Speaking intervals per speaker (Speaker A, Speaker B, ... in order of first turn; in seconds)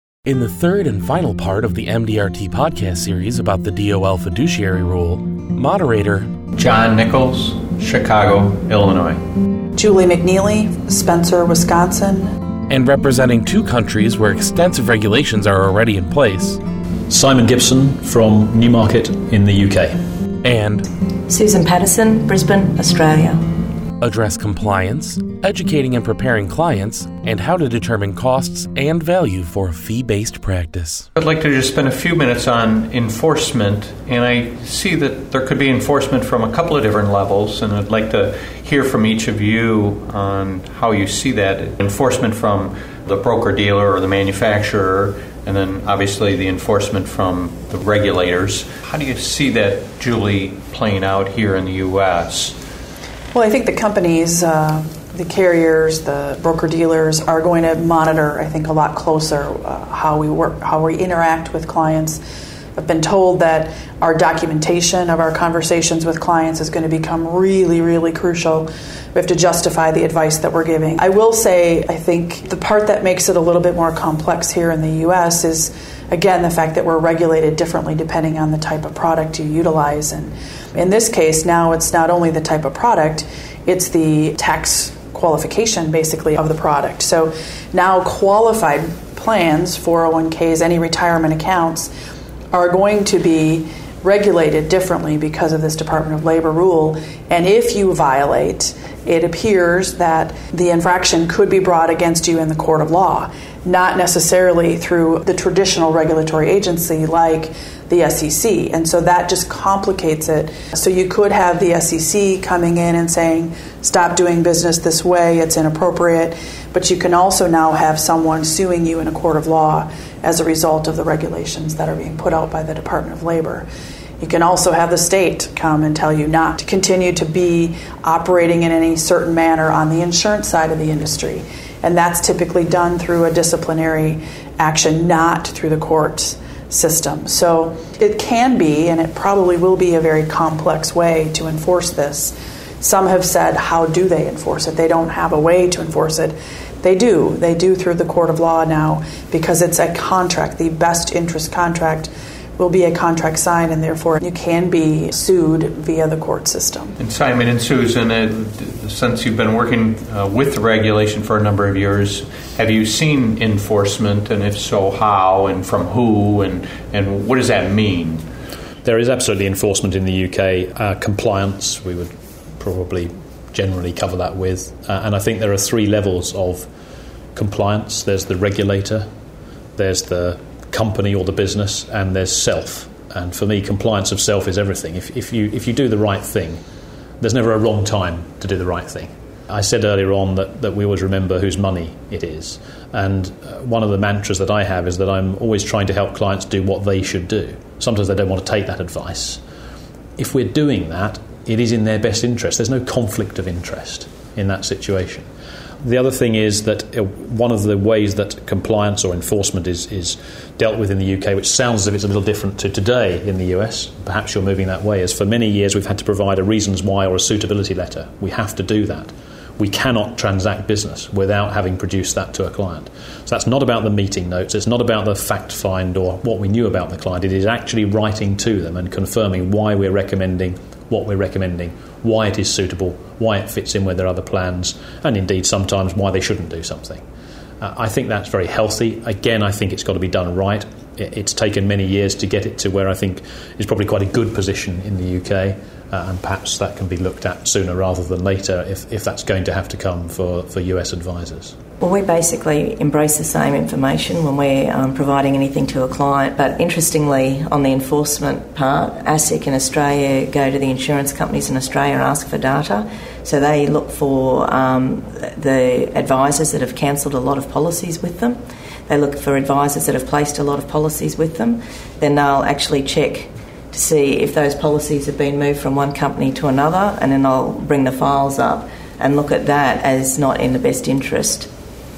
Speaker A: 0.3-6.3, 12.7-16.6, 20.4-20.9, 24.0-31.1
Speaker B: 6.6-9.2, 31.2-52.6, 157.0-168.2
Speaker C: 9.8-12.3, 53.3-62.2, 62.8-91.9, 92.5-123.7, 124.2-157.0
Speaker D: 17.1-19.9, 168.8-176.7, 177.3-179.1, 179.8-186.6, 187.2-199.4, 200.2-205.3, 205.8-237.0, 237.6-251.6
Speaker E: 21.3-23.4, 251.8-281.5